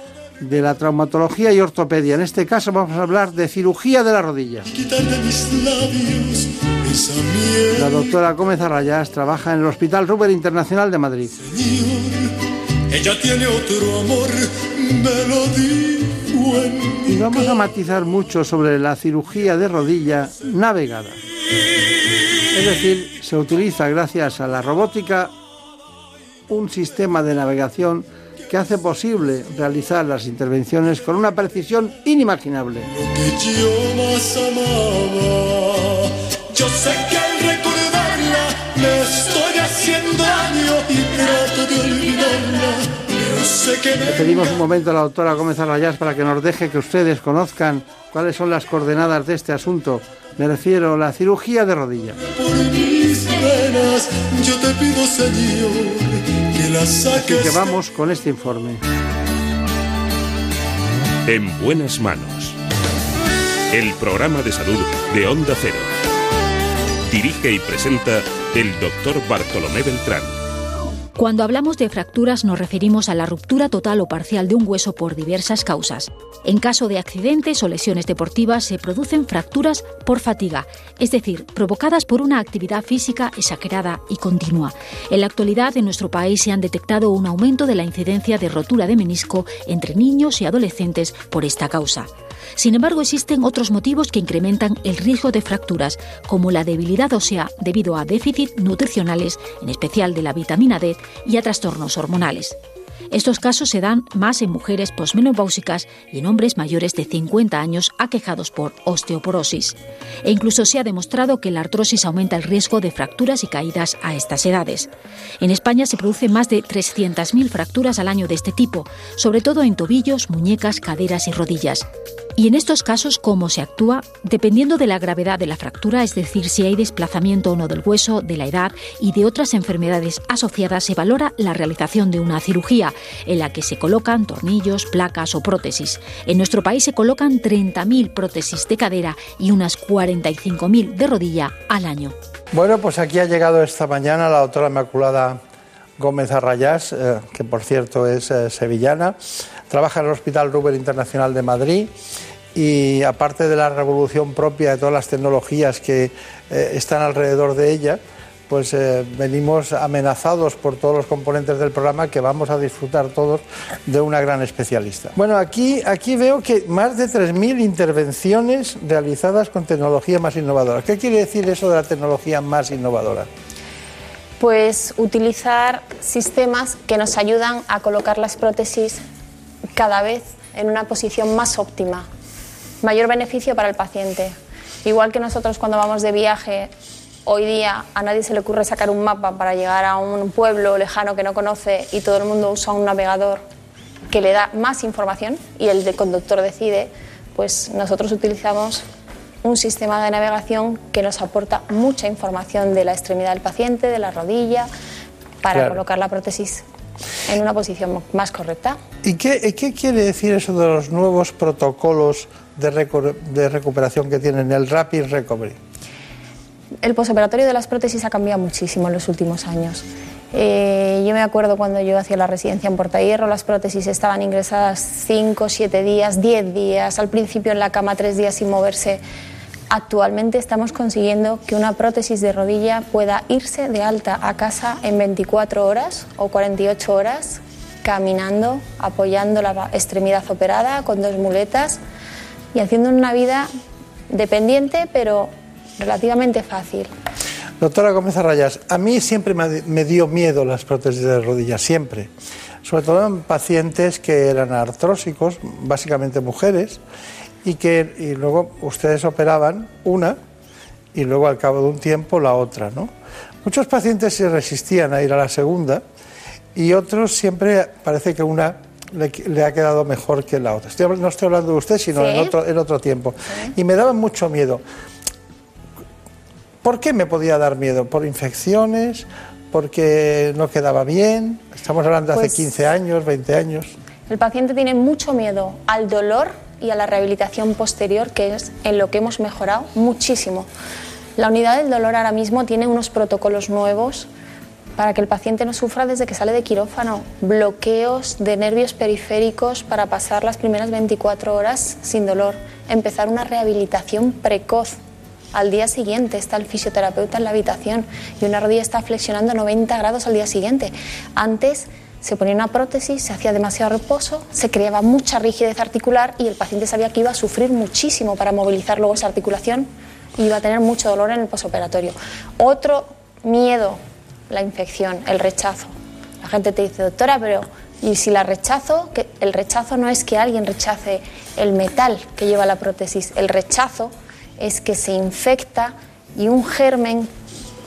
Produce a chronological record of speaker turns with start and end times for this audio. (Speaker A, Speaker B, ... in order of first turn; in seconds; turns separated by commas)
Speaker A: 0.4-4.7, Speaker B: 4.7-8.1, Speaker A: 7.8-11.3, Speaker B: 11.4-12.3, Speaker B: 12.9-17.2, Speaker A: 17.1-21.2, Speaker A: 22.5-25.3, Speaker A: 26.5-32.9, Speaker B: 33.0-44.6, Speaker A: 44.1-52.2, Speaker B: 52.3-57.8, Speaker A: 57.2-58.8, Speaker C: 61.3-62.6, Speaker C: 63.7-65.9, Speaker C: 67.1-70.3, Speaker D: 71.2-102.6, Speaker D: 103.1-121.9, Speaker D: 122.4-142.2, Speaker A: 142.5-145.4, Speaker A: 146.0-149.2, Speaker A: 149.7-151.9, Speaker A: 152.6-173.3, Speaker E: 174.4-179.0, Speaker E: 179.8-182.1, Speaker E: 182.8-186.7, Speaker E: 187.3-193.4, Speaker E: 194.1-198.8, Speaker E: 199.4-204.7, Speaker E: 205.4-206.6, Speaker A: 205.5-205.8, Speaker E: 207.3-208.8, Speaker A: 209.0-215.6, Speaker E: 216.8-229.0, Speaker E: 229.7-241.8, Speaker E: 242.5-243.5, Speaker E: 244.1-246.9, Speaker A: 247.6-252.1, Speaker A: 252.6-256.8, Speaker A: 257.4-260.2, Speaker A: 260.9-262.9, Speaker A: 263.4-265.8, Speaker A: 266.6-274.6, Speaker E: 271.9-272.4, Speaker A: 276.6-283.7, Speaker E: 282.1-282.4, Speaker E: 284.1-290.5, Speaker E: 291.2-294.1, Speaker E: 294.8-304.8, Speaker E: 305.3-325.7, Speaker E: 326.2-337.1